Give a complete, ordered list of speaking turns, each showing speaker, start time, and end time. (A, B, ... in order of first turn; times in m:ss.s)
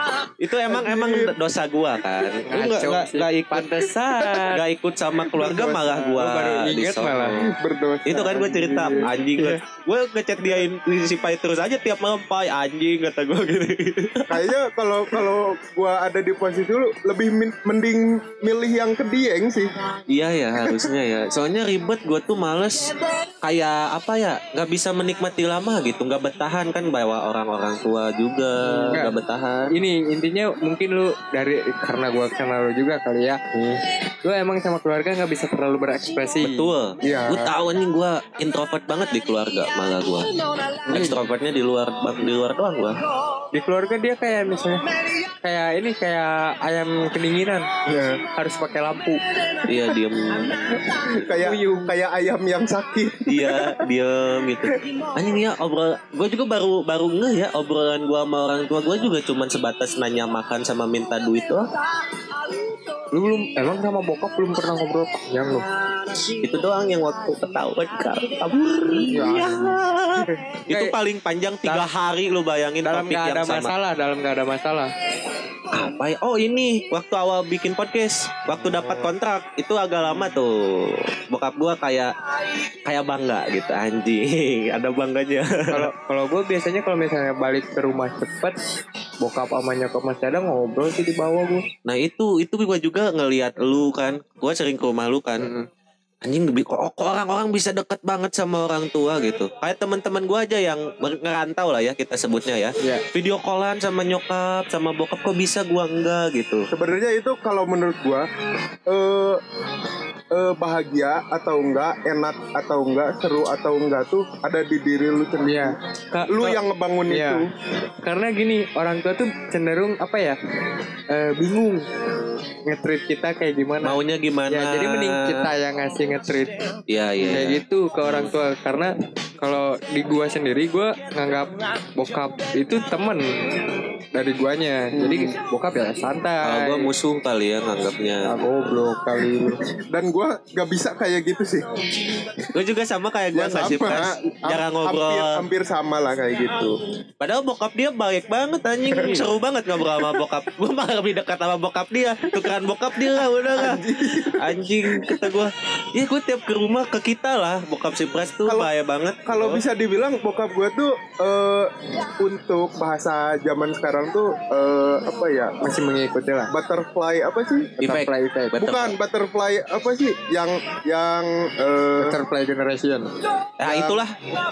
0:00.4-0:03.9 A
0:00.7-0:01.3 B
0:02.5-0:04.6 C
0:04.5-0:07.5 A
0:05.3-0:07.4 C
0:07.4-0:09.1 B
0:08.1-0:14.4 A
0:14.3-0:19.7 B
0:20.1-0:29.7 A
0:20.6-0:20.8 B
0:28.6-0:29.1 C
0:29.7-0:33.4 C
0:33.5-0:33.8 A
0:34.2-0:36.7 C
0:36.4-0:40.3 A
0:37.0-0:37.5 B
0:40.9-0:41.1 B
0:40.9-0:43.0 A
0:43.5-0:44.8 C
0:45.4-0:47.7 C
0:47.9-0:48.2 B
0:48.2-0:49.2 C
0:49.6-0:50.8 A
0:51.1-0:51.9 C
0:51.1-0:53.8 B
0:53.3-1:01.7 A
1:03.1-1:05.6 C
1:06.4-1:13.7 A
1:09.1-1:09.8 C
1:10.7-1:10.9 C
1:11.6-1:11.9 C
1:12.8-1:14.9 C
1:15.7-1:22.1 A
1:18.5-1:19.1 C
1:22.8-1:25.9 A
1:25.7-1:28.6 C
1:29.2-1:31.6 C
1:31.8-1:35.5 A
1:35.4-1:35.7 C
1:36.2-1:46.7 A
1:42.8-1:43.0 C
1:46.7-1:48.3 B
1:48.9-1:49.4 B
1:50.3-1:55.7 B
1:55.4-1:57.4 C
1:56.3-1:57.5 B
1:58.0-2:00.4 C
2:01.1-2:01.8 C
2:02.6-2:04.0 C
2:03.8-2:05.5 A
2:04.5-2:06.6 C
2:06.9-2:08.3 A
2:07.2-2:13.3 C
2:14.1-2:16.9 C
2:15.0-2:15.3 B
2:16.4-2:18.6 A
2:18.2-2:19.6 C
2:19.9-2:21.6 B
2:22.5-2:25.4 A
2:23.3-2:26.8 B
2:27.2-2:33.8 A
2:28.9-2:29.2 B
2:33.5-2:35.2 B
2:34.3-2:39.6 A
2:39.3-2:45.6 B
2:45.6-2:46.5 C
2:46.5-2:47.8 B
2:47.8-2:49.0 A
2:47.8-2:48.6 C
2:48.6-2:52.2 B
2:52.0-2:53.1 C
2:53.6-2:54.1 A
2:53.6-2:54.0 B